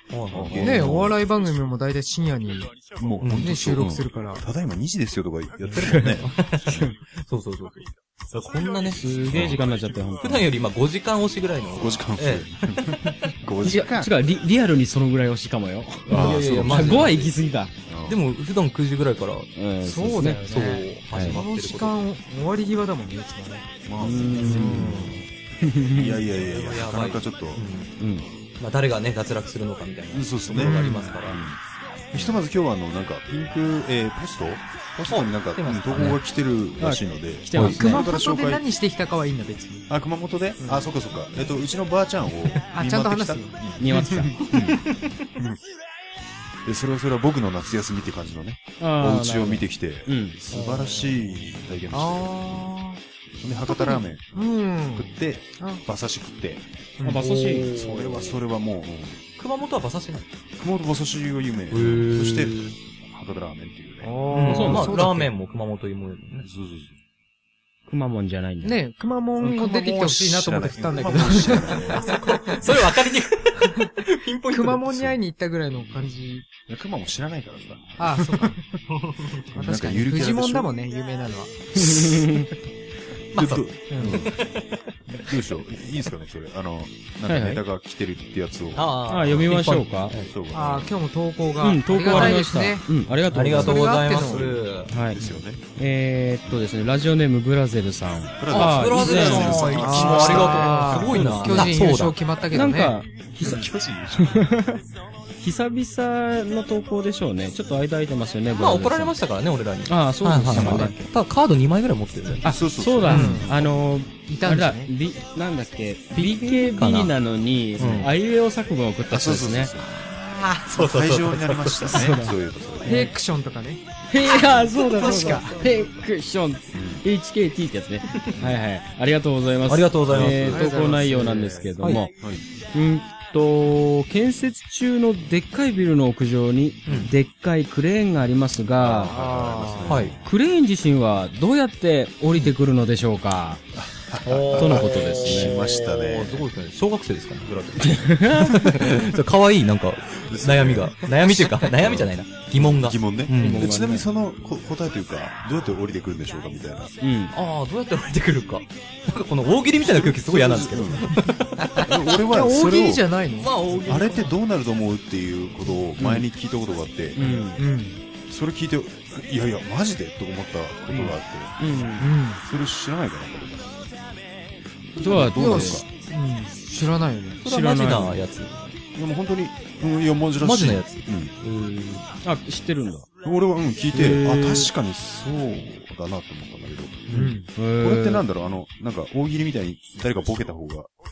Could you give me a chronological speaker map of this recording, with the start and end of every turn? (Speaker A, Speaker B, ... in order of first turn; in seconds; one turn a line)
Speaker A: 0.1-0.9
Speaker B: 0.3-1.2
Speaker C: 0.6-2.8
Speaker B: 2.9-6.9
Speaker A: 3.2-3.5
Speaker C: 3.4-4.4
Speaker A: 5.7-9.5
Speaker D: 5.8-6.2
Speaker D: 8.9-10.5
Speaker B: 9.2-9.8
Speaker A: 10.2-13.2
Speaker B: 11.7-14.3
Speaker D: 13.6-17.7
Speaker B: 16.1-17.2
Speaker A: 16.1-17.3
Speaker B: 17.9-18.2
Speaker A: 18.1-19.5
Speaker D: 19.5-20.4
Speaker C: 19.8-23.7
Speaker A: 20.4-22.0
Speaker D: 21.1-21.4
Speaker B: 23.9-25.2
Speaker D: 24.0-25.1
Speaker C: 24.4-24.9
Speaker A: 24.6-25.1
Speaker D: 25.6-26.2
Speaker B: 25.8-27.7
Speaker A: 26.3-27.9
Speaker D: 28.0-28.2
Speaker A: 28.6-31.4
Speaker B: 30.1-31.6
Speaker C: 30.5-31.2
Speaker B: 32.1-38.6
Speaker A: 35.0-36.2
Speaker D: 36.8-38.1
Speaker C: 37.6-39.9
Speaker B: 39.9-45.6
Speaker C: 40.6-40.9
Speaker C: 42.7-44.4
Speaker D: 43.8-44.4
Speaker B: 46.6-52.7
Speaker D: 48.8-50.4
Speaker A: 50.5-51.1
Speaker C: 51.9-53.0
Speaker B: 53.4-56.6
Speaker C: 53.7-55.8
Speaker C: 57.0-57.9
Speaker D: 57.0-57.9
Speaker B: 57.5-59.2
Speaker A: 59.4-60.3
Speaker B: 60.6-64.1
Speaker A: 61.7-62.8
Speaker C: 64.0-65.3
Speaker A: 64.3-66.5
Speaker D: 64.5-65.2
Speaker B: 66.4-67.0
Speaker D: 67.9-68.8
Speaker C: 68.6-72.2
Speaker B: 69.4-72.2
Speaker A: 71.7-74.9
Speaker C: 74.5-76.5
Speaker B: 76.7-78.7
Speaker C: 78.0-78.6
Speaker A: 78.9-79.5
Speaker B: 79.5-80.7
Speaker C: 79.5-81.6
Speaker D: 81.8-82.5
Speaker B: 81.8-82.3
Speaker A: 83.3-84.8
Speaker B: 83.3-84.4
Speaker C: 83.9-84.2
Speaker B: 85.2-91.0
Speaker D: 87.3-87.6
Speaker A: 88.8-90.3
Speaker D: 89.1-90.1
Speaker C: 90.5-92.9
Speaker D: 91.6-93.9
Speaker A: 91.9-92.4
Speaker A: 93.3-94.9
Speaker C: 93.5-94.6
Speaker D: 94.9-95.2
Speaker B: 95.1-95.6
Speaker D: 95.8-101.9
Speaker B: 98.4-101.0
Speaker A: 98.5-102.2
Speaker C: 99.1-103.0
Speaker D: 102.5-104.8
Speaker B: 103.4-104.6
Speaker D: 105.4-109.2
Speaker A: 108.5-112.4
Speaker D: 109.9-111.0
Speaker B: 110.5-111.0
Speaker B: 112.4-113.8
Speaker D: 112.4-119.7
Speaker A: 113.0-113.4
Speaker C: 113.1-113.5
Speaker C: 114.3-114.9
Speaker A: 116.1-117.1
Speaker A: 117.8-118.1
Speaker B: 117.8-118.1
Speaker B: 119.1-120.0
Speaker A: 120.0-122.1
Speaker B: 120.7-123.1
Speaker D: 121.9-122.3
Speaker D: 122.8-123.1
Speaker C: 122.8-123.8
Speaker D: 124.1-132.1
Speaker B: 124.2-124.7
Speaker C: 124.7-125.7
Speaker B: 126.7-127.0
Speaker B: 128.3-128.6
Speaker A: 129.7-130.7
Speaker B: 130.1-130.4
Speaker C: 130.5-131.7
Speaker B: 132.0-132.4
Speaker D: 132.7-139.1
Speaker A: 136.8-137.1
Speaker B: 138.8-140.2
Speaker C: 139.1-140.0
Speaker A: 139.8-140.2
Speaker D: 140.1-143.6
Speaker B: 143.7-146.5
Speaker A: 144.2-147.9
Speaker D: 144.5-145.6
Speaker B: 147.4-149.0
Speaker D: 147.8-148.9
Speaker A: 148.5-153.7
Speaker B: 150.2-157.0
Speaker D: 153.4-154.1
Speaker D: 157.0-157.3
Speaker A: 157.3-161.9
Speaker B: 159.8-163.1
Speaker C: 162.2-163.6
Speaker A: 163.4-164.3
Speaker B: 163.8-167.4
Speaker D: 167.2-167.6
Speaker C: 167.2-168.0
Speaker B: 168.3-173.8
Speaker D: 171.6-172.1
Speaker C: 172.0-172.4
Speaker B: 175.0-175.8
Speaker D: 175.0-175.8
Speaker C: 175.3-177.4
Speaker A: 177.4-178.8
Speaker D: 177.4-178.2
Speaker B: 178.9-181.3
Speaker A: 180.4-182.1
Speaker D: 182.2-183.1
Speaker B: 183.2-187.1
Speaker D: 183.9-184.7
Speaker A: 187.1-187.4
Speaker C: 187.1-187.5
Speaker D: 187.6-188.2
Speaker B: 187.8-190.9